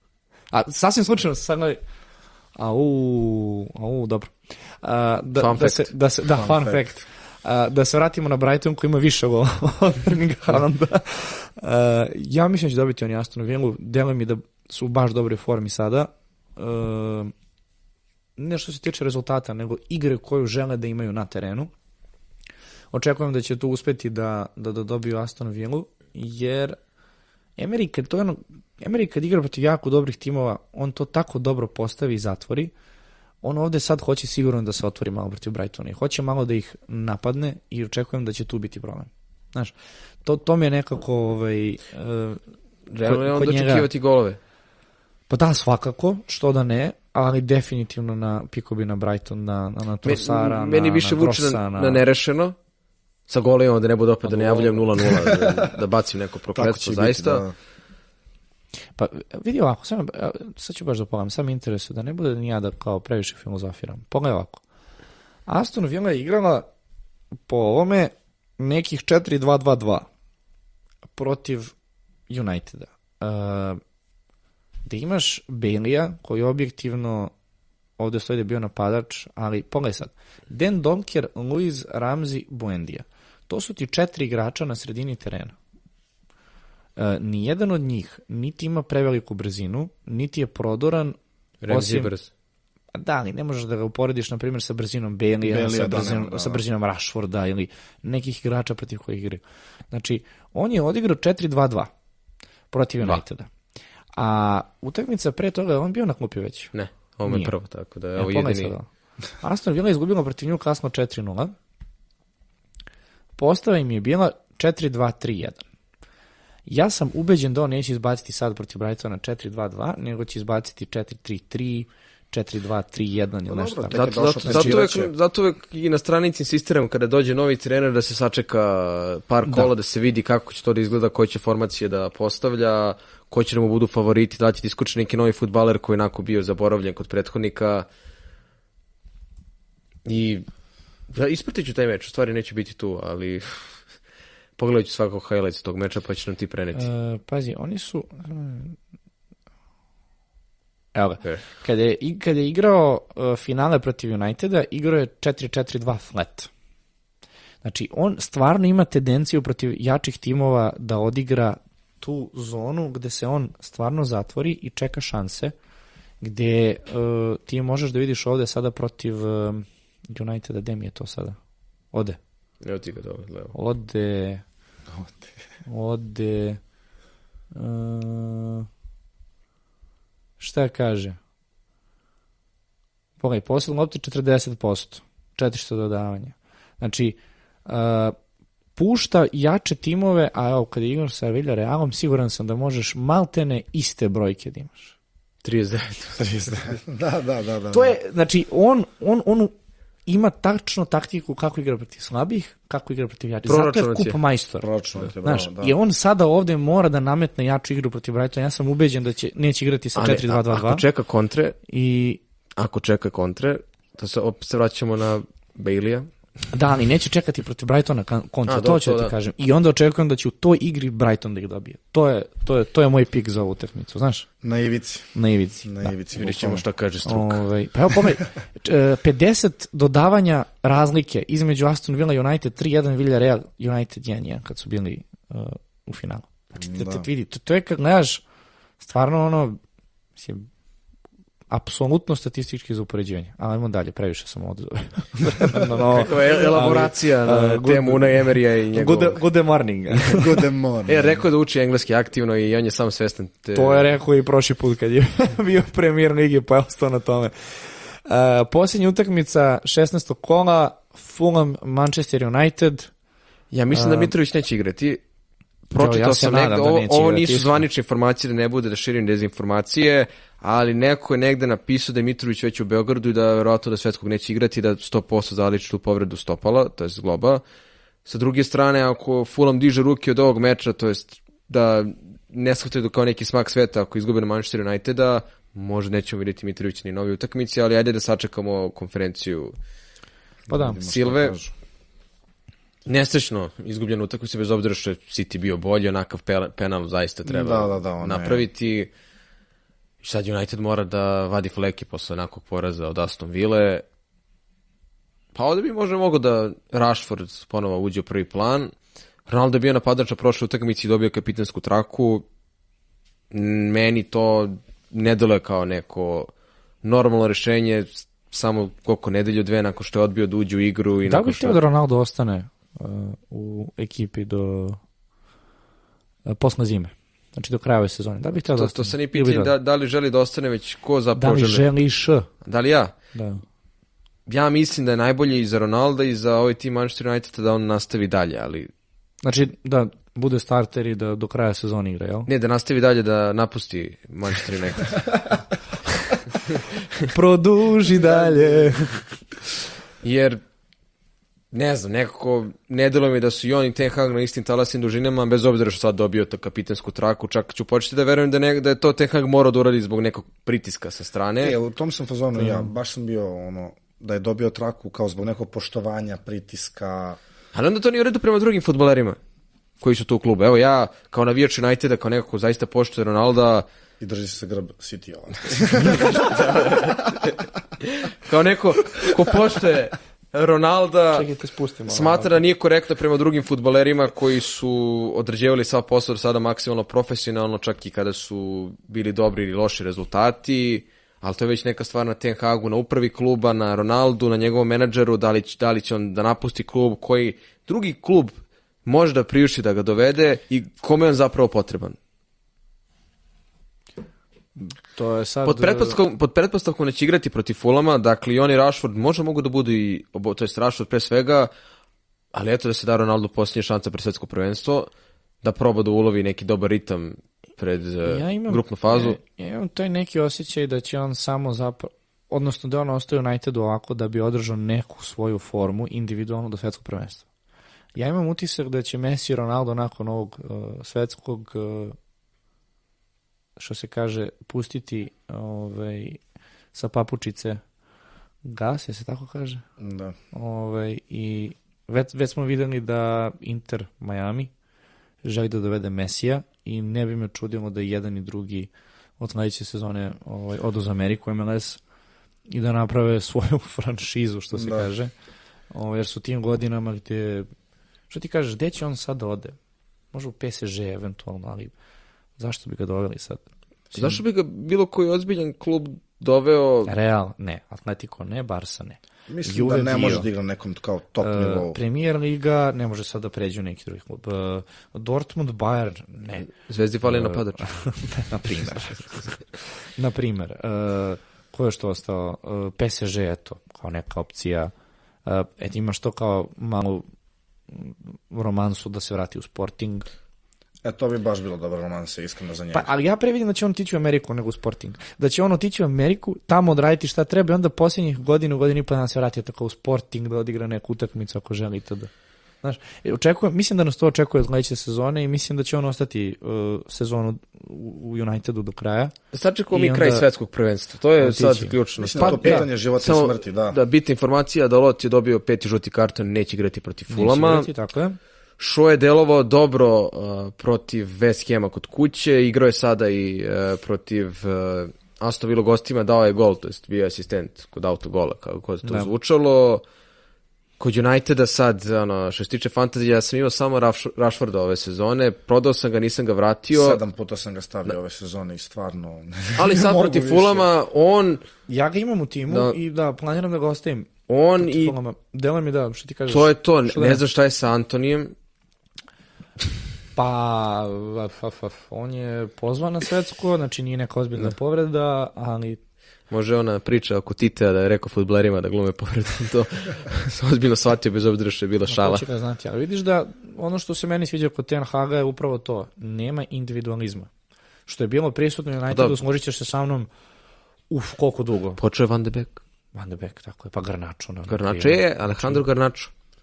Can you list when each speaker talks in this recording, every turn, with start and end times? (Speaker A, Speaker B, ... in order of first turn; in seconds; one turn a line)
Speaker A: 0.5-1.8
Speaker A: 2.5-17.3
Speaker B: 5.4-5.9
Speaker C: 6.3-6.9
Speaker A: 18.4-21.7
Speaker A: 22.9-26.8
Speaker A: 27.6-32.7
Speaker A: 33.4-39.7
Speaker A: 40.2-42.4
Speaker B: 42.9-44.4
Speaker A: 43.0-43.9
Speaker A: 45.3-52.0
Speaker B: 50.0-52.5
Speaker B: 53.3-57.4
Speaker A: 54.3-55.1
Speaker C: 55.1-55.7
Speaker C: 56.5-57.5
Speaker A: 59.0-64.6
Speaker A: 65.5-66.7
Speaker A: 67.5-70.1
Speaker A: 71.2-71.7
Speaker A: 72.3-73.8
Speaker A: 74.8-77.3
Speaker A: 78.0-85.5
Speaker A: 87.0-91.2
Speaker B: 91.6-92.3
Speaker A: 91.7-92.1
Speaker A: 93.0-101.9
Speaker C: 95.5-96.6
Speaker A: 102.7-103.5
Speaker A: 104.1-106.7
Speaker B: 106.7-108.7
Speaker A: 107.3-107.5
Speaker A: 108.2-108.9
Speaker A: 109.4-111.5
Speaker A: 113.4-115.6
Speaker A: 116.7-124.8
Speaker C: 123.5-125.1
Speaker B: 123.9-137.9
Speaker B: 140.1-140.4
Speaker B: 141.1-143.8
Speaker B: 144.6-146.9
Speaker A: 146.7-148.8
Speaker A: 150.9-156.5
Speaker A: 157.6-165.6
Speaker A: 166.2-171.4
Speaker A: 171.9-172.2
Speaker B: 172.6-173.6
Speaker A: 173.5-174.4
Speaker C: 174.9-175.3
Speaker A: 175.7-176.6
Speaker A: 177.5-178.7
Speaker A: 180.4-181.2
Speaker A: 183.2-188.2
Speaker A: 188.8-194.9
Speaker B: 195.4-196.2
Speaker C: 196.2-197.9
Speaker A: 197.7-199.5
Speaker A: 200.1-204.7
Speaker B: 203.4-204.2
Speaker C: 204.6-205.7
Speaker A: 205.2-210.8
Speaker B: 209.9-211.6
Speaker A: 211.7-212.2
Speaker B: 212.6-216.1
Speaker A: 216.5-224.3
Speaker B: 218.5-219.1
Speaker C: 224.4-226.6
Speaker A: 225.1-225.9
Speaker B: 226.1-227.4
Speaker A: 227.1-238.2
Speaker C: 236.6-237.1
Speaker A: 238.8-239.6
Speaker A: 240.2-240.5
Speaker A: 241.5-250.3
Speaker B: 245.7-249.2
Speaker C: 250.1-251.2
Speaker B: 250.8-253.9
Speaker A: 253.5-262.9
Speaker B: 263.5-265.0
Speaker A: 263.7-264.1
Speaker B: 265.7-277.4
Speaker A: 265.8-267.6
Speaker B: 278.1-289.5
Speaker C: 290.5-291.5
Speaker A: 290.5-290.8
Speaker B: 290.8-291.4
Speaker B: 292.9-298.9
Speaker C: 297.3-298.5
Speaker B: 300.0-303.8
Speaker B: 305.3-308.7
Speaker B: 309.3-312.2
Speaker B: 313.3-316.3
Speaker B: 316.8-321.6
Speaker A: 321.1-324.8
Speaker A: 326.2-329.5
Speaker B: 328.4-331.6
Speaker A: 331.1-332.3
Speaker B: 332.4-332.9
Speaker A: 333.1-333.4
Speaker B: 334.3-338.7
Speaker A: 339.2-342.3
Speaker B: 342.3-345.2
Speaker B: 346.5-346.8
Speaker A: 347.1-349.1
Speaker C: 347.9-348.7
Speaker B: 350.0-350.4
Speaker B: 351.5-361.6
Speaker C: 361.4-367.2
Speaker A: 362.4-362.7
Speaker B: 367.5-369.2
Speaker B: 369.8-373.6
Speaker C: 374.0-376.9
Speaker B: 375.7-381.3
Speaker A: 381.1-382.4
Speaker B: 381.9-398.3
Speaker B: 398.8-402.0
Speaker A: 404.6-406.0
Speaker B: 405.4-411.5
Speaker B: 412.3-414.9
Speaker B: 415.4-419.2
Speaker A: 418.1-427.2
Speaker A: 427.9-431.9
Speaker A: 433.6-436.2
Speaker A: 436.7-437.6
Speaker A: 438.4-439.6
Speaker C: 439.8-440.1
Speaker A: 440.3-444.5
Speaker A: 445.2-451.8
Speaker A: 452.5-455.1
Speaker C: 454.6-454.9
Speaker A: 455.7-457.5
Speaker A: 458.1-459.6
Speaker A: 460.1-461.7
Speaker A: 462.4-463.4
Speaker B: 463.9-466.9
Speaker A: 466.9-470.3
Speaker C: 469.3-471.8
Speaker A: 471.2-476.5
Speaker B: 476.5-477.7
Speaker A: 477.1-479.4
Speaker A: 480.0-484.7
Speaker A: 485.3-487.1
Speaker A: 487.7-490.1
Speaker C: 490.8-492.9
Speaker A: 492.7-502.1
Speaker A: 502.6-509.1
Speaker B: 509.3-517.7
Speaker A: 509.7-510.2
Speaker A: 511.2-512.7
Speaker C: 512.0-513.8
Speaker A: 517.1-518.2
Speaker B: 518.6-529.8
Speaker A: 528.8-529.1
Speaker B: 530.8-537.0
Speaker C: 536.7-540.7
Speaker B: 539.5-541.4
Speaker A: 541.7-547.2
Speaker B: 542.5-542.8
Speaker B: 544.3-545.0
Speaker B: 546.3-548.3
Speaker A: 550.1-555.8
Speaker B: 556.3-562.2
Speaker A: 561.9-567.3
Speaker A: 567.9-570.1
Speaker B: 568.9-569.2
Speaker A: 570.9-571.8
Speaker B: 571.8-572.6
Speaker A: 573.0-575.6
Speaker B: 574.5-576.1